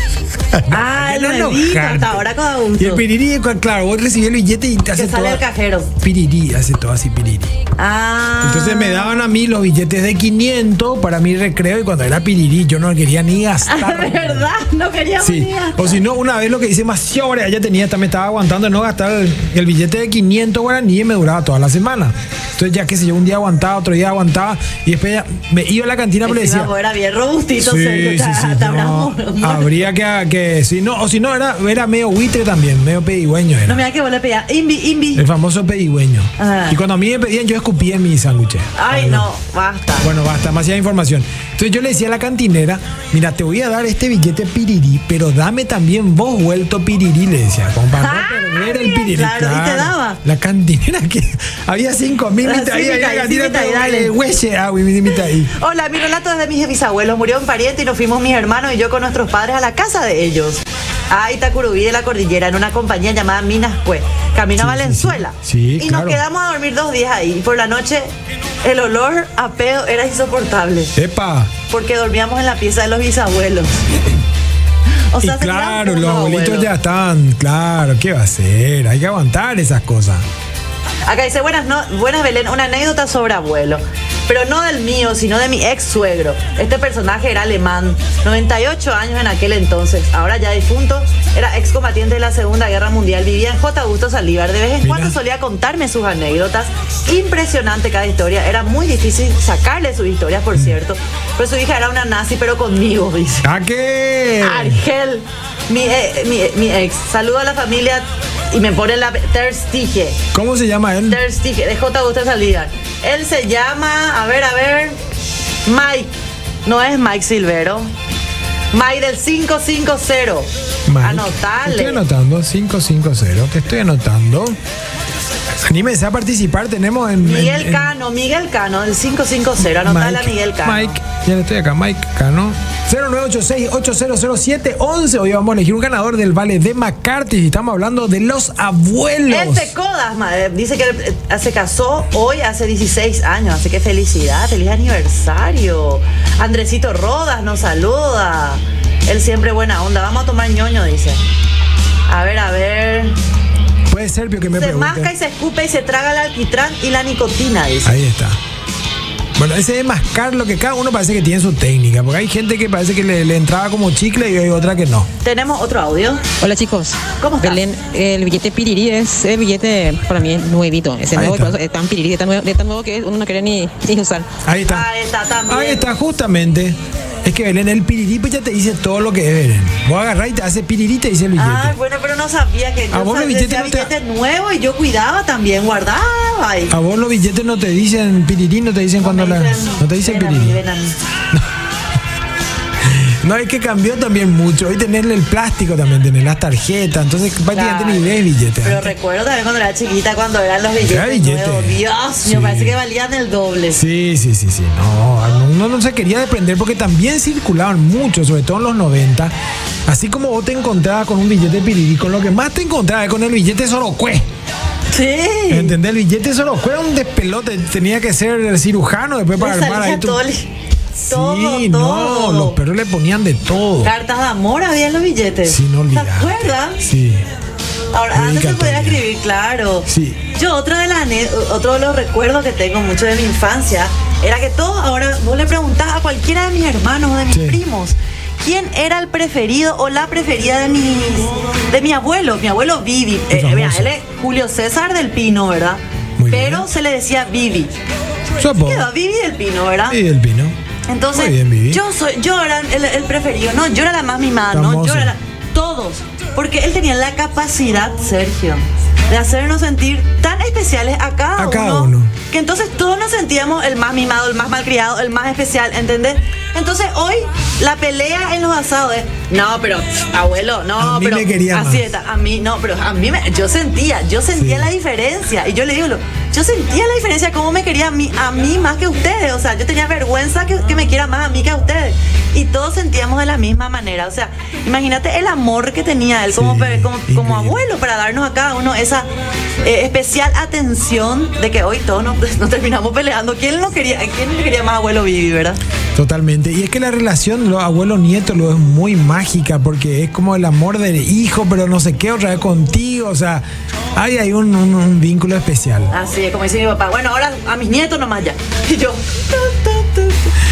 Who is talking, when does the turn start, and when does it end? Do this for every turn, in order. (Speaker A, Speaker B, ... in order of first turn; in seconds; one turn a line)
Speaker A: 0.5-5.5
Speaker B: 0.7-3.0
Speaker B: 4.9-5.9
Speaker A: 6.0-7.6
Speaker B: 7.8-9.3
Speaker A: 8.4-14.5
Speaker B: 13.7-16.0
Speaker A: 15.2-26.7
Speaker B: 26.2-29.8
Speaker A: 27.6-33.9
Speaker B: 33.7-35.2
Speaker A: 35.1-39.3
Speaker B: 36.4-36.8
Speaker B: 38.8-40.1
Speaker A: 40.0-55.5
Speaker B: 48.0-50.2
Speaker B: 52.4-54.1
Speaker B: 55.5-71.0
Speaker A: 64.6-66.2
Speaker A: 71.0-71.5
Speaker B: 71.7-74.0
Speaker B: 75.1-76.7
Speaker A: 75.2-80.2
Speaker B: 81.1-103.5
Speaker A: 94.8-95.2
Speaker A: 103.4-104.8
Speaker B: 104.4-110.2
Speaker A: 110.3-111.2
Speaker B: 111.1-115.0
Speaker B: 115.7-117.9
Speaker B: 118.7-120.5
Speaker A: 120.9-124.6
Speaker B: 121.0-122.0
Speaker A: 125.5-127.9
Speaker B: 127.2-131.0
Speaker A: 129.7-139.7
Speaker B: 139.3-151.2
Speaker B: 152.1-153.2
Speaker A: 153.9-155.1
Speaker B: 154.6-157.9
Speaker A: 157.8-158.4
Speaker A: 159.4-165.1
Speaker B: 165.2-166.2
Speaker C: 166.4-174.3
Speaker B: 167.2-167.6
Speaker A: 171.1-171.6
Speaker A: 174.4-174.9
Speaker B: 174.7-175.9
Speaker A: 175.5-181.8
Speaker B: 181.4-186.8
Speaker A: 182.9-183.9
Speaker A: 186.7-190.6
Speaker B: 189.0-191.0
Speaker A: 192.8-198.9
Speaker B: 197.5-203.8
Speaker A: 200.8-202.8
Speaker A: 203.7-209.3
Speaker A: 209.9-214.3
Speaker B: 214.9-215.8
Speaker A: 215.5-220.2
Speaker B: 219.4-220.5
Speaker A: 221.0-223.9
Speaker B: 221.1-222.6
Speaker B: 223.8-226.8
Speaker A: 225.5-227.3
Speaker B: 227.9-247.7
Speaker A: 228.1-229.0
Speaker A: 229.9-230.2
Speaker A: 237.3-237.6
Speaker A: 243.3-243.9
Speaker A: 246.2-246.7
Speaker A: 248.4-248.9
Speaker B: 248.4-250.0
Speaker A: 249.9-250.6
Speaker B: 250.9-289.1
Speaker A: 251.1-251.8
Speaker A: 254.5-255.1
Speaker A: 261.4-262.1
Speaker A: 270.8-271.9
Speaker A: 274.4-274.7
Speaker A: 286.3-287.7
Speaker B: 289.6-295.6
Speaker A: 295.9-305.9
Speaker B: 305.9-310.3